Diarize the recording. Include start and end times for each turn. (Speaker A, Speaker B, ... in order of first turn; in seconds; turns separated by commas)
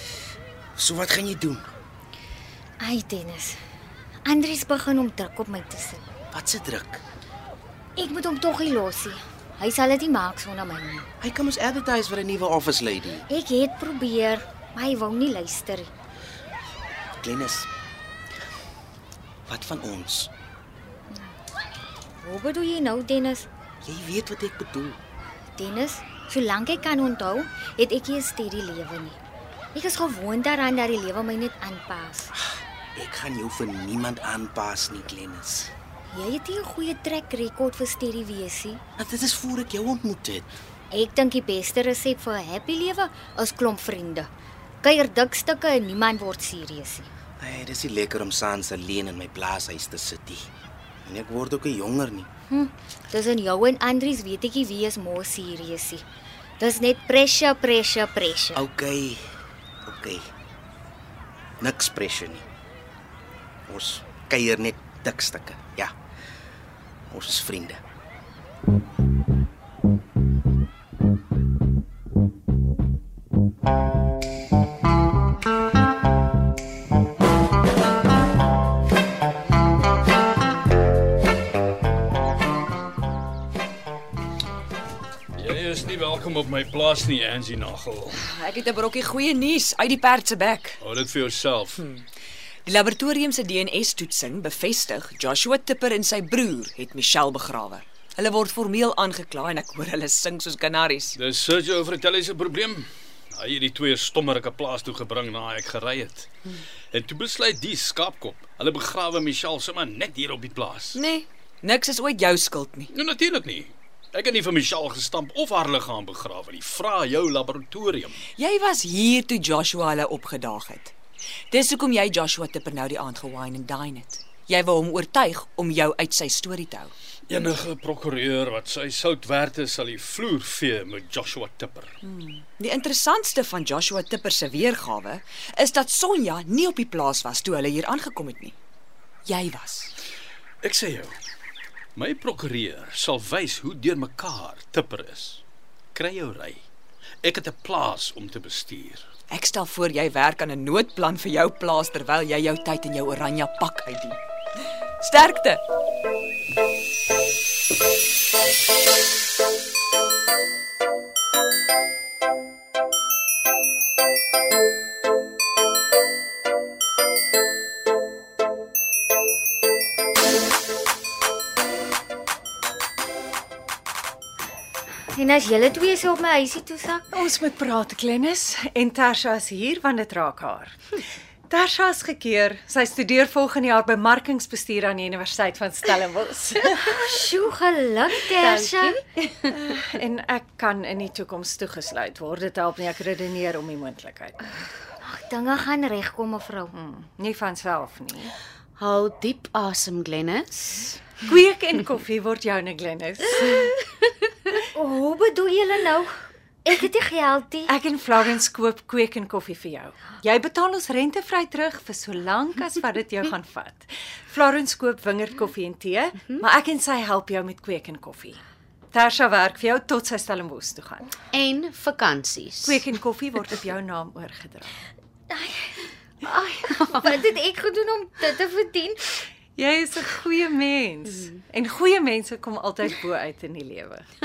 Speaker A: 0.8-1.7, Speaker B: 2.8-3.6, Speaker B: 4.2-6.0, Speaker A: 6.3-7.0, Speaker B: 8.0-11.1, Speaker A: 11.2-13.2, Speaker B: 13.3-15.9, Speaker A: 17.2-17.7, Speaker A: 19.5-20.3, Speaker B: 22.2-23.5, Speaker A: 23.8-25.0, Speaker B: 25.6-29.2, Speaker B: 29.7-32.3, Speaker A: 32.9-35.7, Speaker B: 36.1-38.8, Speaker A: 39.0-40.5, Speaker B: 40.9-44.3, Speaker B: 44.8-47.1, Speaker A: 47.4-50.5, Speaker A: 51.0-52.3, Speaker B: 52.5-56.0, Speaker B: 56.6-58.6, Speaker A: 58.5-59.2, Speaker A: 59.8-60.2, Speaker A: 61.6-62.4, Speaker A: 63.7-65.9, Speaker A: 67.1-67.8, Speaker C: 85.3-88.2, Speaker D: 88.2-90.8, Speaker C: 90.8-91.8, Speaker D: 91.8-92.0, Speaker D: 92.7-101.2, Speaker C: 101.1-106.3, Speaker C: 106.9-111.0, Speaker D: 110.9-112.9, Speaker C: 112.9-118.2, Speaker D: 118.4-120.9, Speaker D: 121.5-126.9, Speaker C: 127.3-131.9, Speaker D: 132.0-138.6, Speaker D: 139.2-139.9, Speaker C: 140.6-141.1, Speaker C: 141.9-145.4, Speaker C: 145.9-146.6, Speaker C: 147.2-149.1, Speaker D: 149.3-154.2, Speaker D: 155.0-155.6, Speaker B: 175.1-177.1, Speaker E: 177.1-180.8, Speaker E: 181.5-187.1, Speaker B: 186.8-189.0, Speaker F: 188.3-189.0, Speaker E: 189.5-194.6, Speaker B: 195.0-196.7, Speaker E: 196.7-198.3, Speaker F: 198.8-200.5, Speaker E: 200.6-203.8, Speaker B: 204.6-206.1, Speaker B: 206.6-207.7, Speaker E: 207.7-218.4, Speaker E: 218.9-221.1, Speaker F: 221.3-222.8, Speaker E: 222.6-224.8, Speaker B: 225.3-225.8, Speaker B: 226.8-229.2, Speaker E: 229.6-234.0